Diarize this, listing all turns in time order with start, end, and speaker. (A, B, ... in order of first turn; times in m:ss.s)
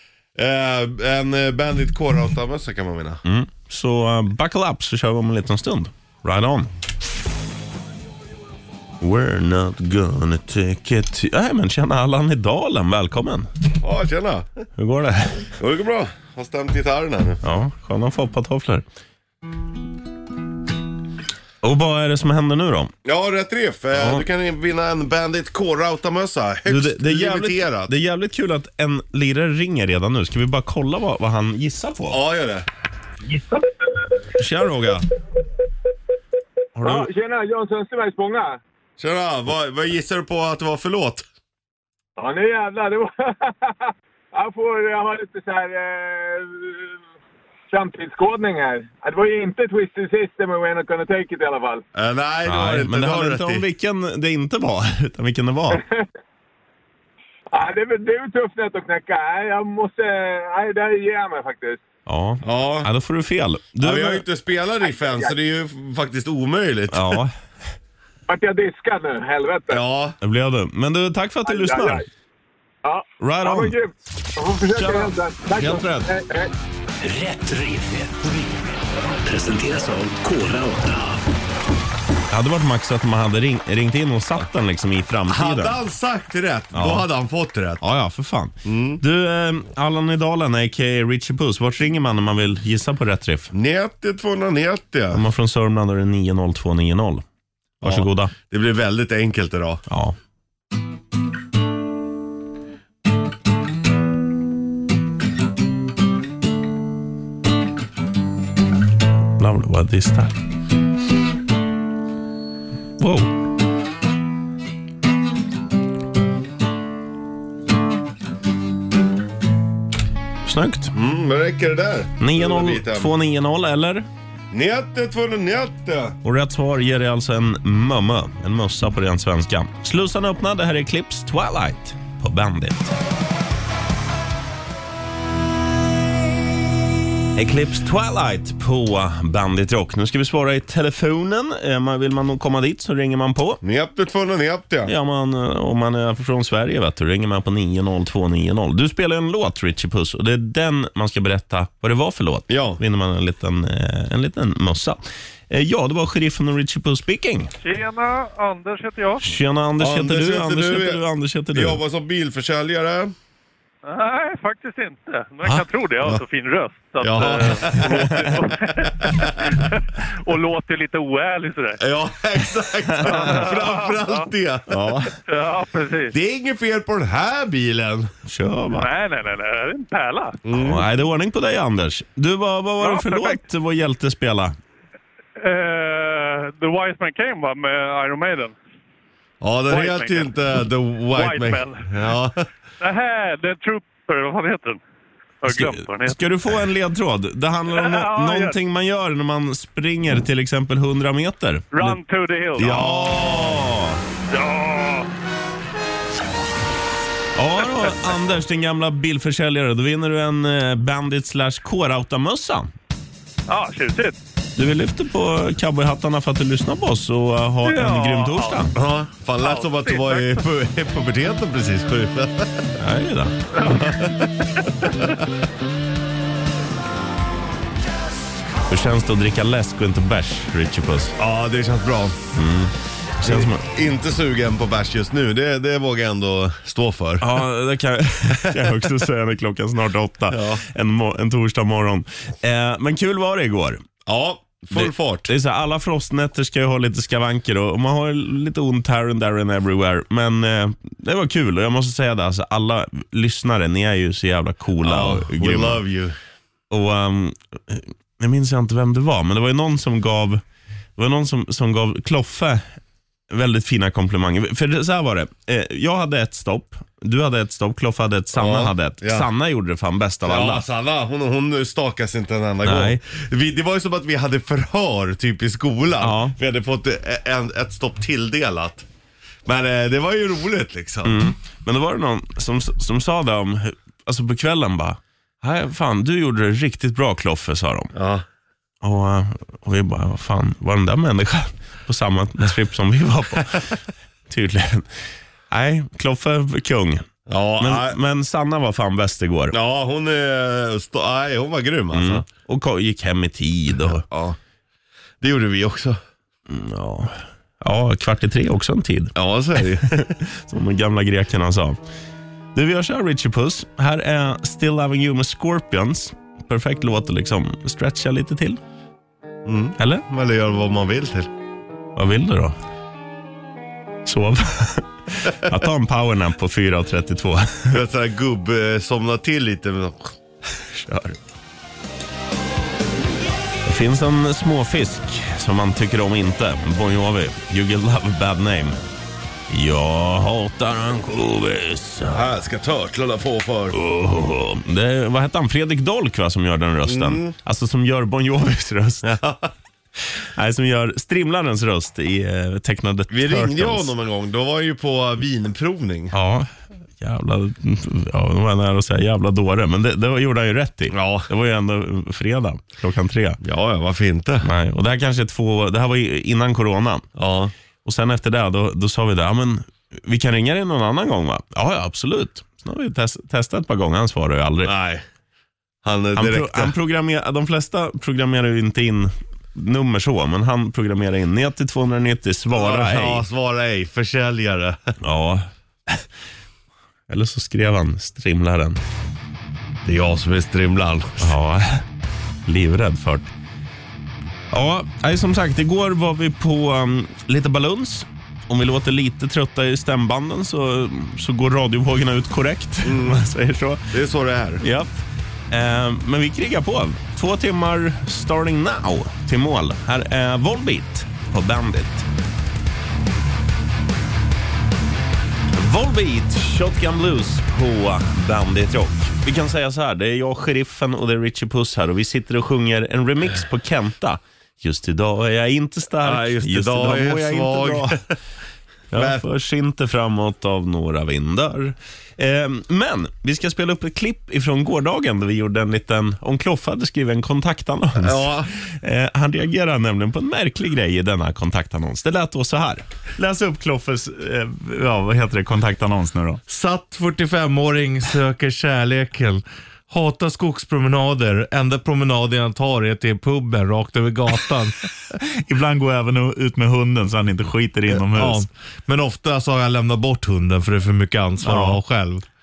0:00.4-0:03.2 A
0:03.2-0:06.7 B
0:09.0-0:13.5 B
0:13.8-0:14.5 A
0:14.8-0:15.5 B
0:15.6-0:17.4 A
0:17.4-0:18.8 B
0:21.6-0:22.9 B
0:23.1-0:27.9 A
0:24.0-0:24.2 B
0:26.7-0:32.2 B
0:32.1-0:32.6 A
0:33.3-0:33.7 C
0:34.4-0:35.1 B
0:36.8-0:37.1 B
0:36.8-0:38.6 C
0:39.0-0:41.2 A
0:42.2-0:46.9 C
0:47.7-0:51.8 C
0:52.0-0:53.6 A
0:52.5-0:55.8 B
0:55.7-0:56.0 C
0:57.5-1:01.8 C
1:02.1-1:04.2 B
1:02.4-1:02.9 A
1:03.8-1:07.2 A
1:04.8-1:05.4 C
1:06.9-1:07.3 B
1:08.3-1:09.8 C
1:09.7-1:10.2 A
1:10.2-1:12.0 B
1:11.4-1:12.0 C
1:12.8-1:16.5 C
1:13.2-1:13.8 B
1:14.8-1:16.1 B
1:17.2-1:18.0 D
1:19.4-1:21.1 D
1:22.3-1:25.8 B
1:25.3-1:27.8 A
1:26.7-1:27.1 B
1:27.8-1:33.5 B
1:28.7-1:29.0 A
1:33.5-1:35.2 A
1:35.1-1:37.2 B
1:37.8-1:38.3 B
1:37.8-1:39.8 A
1:39.9-1:40.2 B
1:49.4-1:50.3 B
1:53.0-1:53.3 B
2:00.4-2:00.9 B
2:00.9-2:03.1 A
2:02.2-2:04.1 B
2:04.5-2:06.2 A
2:06.2-2:12.9 B
2:17.4-2:23.6 B
2:23.6-2:24.9 A
2:24.8-2:37.5 B
2:32.5-2:32.8 A
2:37.6-2:39.2 E
2:39.2-2:41.8 B
2:39.8-2:41.0 A
2:41.5-2:43.1 A
2:43.8-2:51.8 E
2:47.0-2:48.5 A
2:47.7-2:48.3 B
2:49.0-2:49.5 A
2:51.8-2:55.1 A
2:53.0-2:53.4 B
2:53.0-2:54.3 E
2:54.7-2:55.1 B
2:55.3-2:56.1 E
2:56.1-2:58.1 A
2:58.3-2:58.9 B
2:58.7-3:00.4 E
3:00.5-3:00.8 A
3:00.5-3:04.6 B
3:02.8-3:03.4 E
3:05.4-3:08.6 E
3:09.4-3:12.5 A
3:09.7-3:10.4 E
3:11.1-3:11.9 E
3:12.8-3:14.8 E
3:15.4-3:16.2 E
3:15.5-3:22.0 B
3:17.7-3:18.6 E
3:21.7-3:22.9 E
3:22.6-3:24.0 B
3:22.6-3:23.7 A
3:24.3-3:25.1 E
3:27.4-3:32.7 B
3:33.5-3:34.2 E
3:34.6-3:38.7 B
3:37.6-3:38.7 E
3:38.8-3:42.7 A
3:39.4-3:40.4 E
3:42.8-3:43.4 B
3:43.6-3:44.3 A
3:48.7-3:51.2 B
3:51.2-3:52.2 A
3:52.4-3:53.6 B
3:53.2-3:57.4 A
3:57.2-4:03.8 B
3:58.4-3:58.7 A
4:00.3-4:00.6 A
4:04.1-4:05.3 A
4:04.7-4:15.8 B
4:14.8-4:16.2 A
4:16.7-4:20.4 B
4:21.0-4:22.6 B
4:23.3-4:30.6 B
4:28.4-4:29.3 A
4:30.2-4:38.8 A
4:32.6-4:33.0 B
4:36.0-4:36.4 B
4:39.5-4:41.3 A
4:41.0-4:47.9 B
4:48.0-4:48.2 A
4:48.8-4:53.8 B
4:54.3-4:54.9 B
4:55.5-4:57.0 B
4:57.3-4:58.0 A
4:57.6-4:59.6 B
4:59.5-5:02.2 A
5:01.9-5:04.0 B
5:04.1-5:04.4 A
5:05.2-5:06.0 A
5:06.5-5:09.1 B
5:09.2-5:10.1 A
5:10.0-5:11.8 B
5:12.6-5:18.6 B
5:19.4-5:21.3 A
5:19.8-5:20.0 B
5:22.0-5:22.6 B
5:24.0-5:27.8 B
5:27.7-5:30.1 A
5:30.7-5:31.2 B
5:33.6-5:38.8 B
5:39.5-5:42.2 B
5:42.1-5:43.8 A
5:43.7-5:49.1 B
5:46.9-5:47.3 A
5:49.0-5:49.5 A
5:50.2-5:53.9 B
5:53.1-5:56.1 A
5:56.1-6:03.4 B
6:00.9-6:01.3 A
6:03.4-6:04.5 A
6:04.4-6:07.1 B
6:07.2-6:07.5 A
6:07.8-6:14.7 B
6:14.6-6:15.0 A
6:15.8-6:16.7 A
6:16.2-6:23.2 B
6:22.5-6:24.8 A
6:25.0-6:26.0 B
6:27.1-6:28.8 B
6:29.8-6:31.3 A
6:31.2-6:31.8 B
6:32.5-6:33.3 B
6:34.5-6:43.9 B
6:42.8-6:43.2 A
6:43.9-6:44.6 A
6:44.6-6:45.0 B
6:45.5-6:52.1 B
6:55.5-7:08.0 B
7:06.0-7:08.0 A
7:08.9-7:25.5 B
7:09.0-7:09.2 A
7:18.0-7:18.5 A
7:25.4-7:26.4 F
7:26.5-7:34.8 G
7:35.5-7:38.4 F
7:38.0-7:42.2 G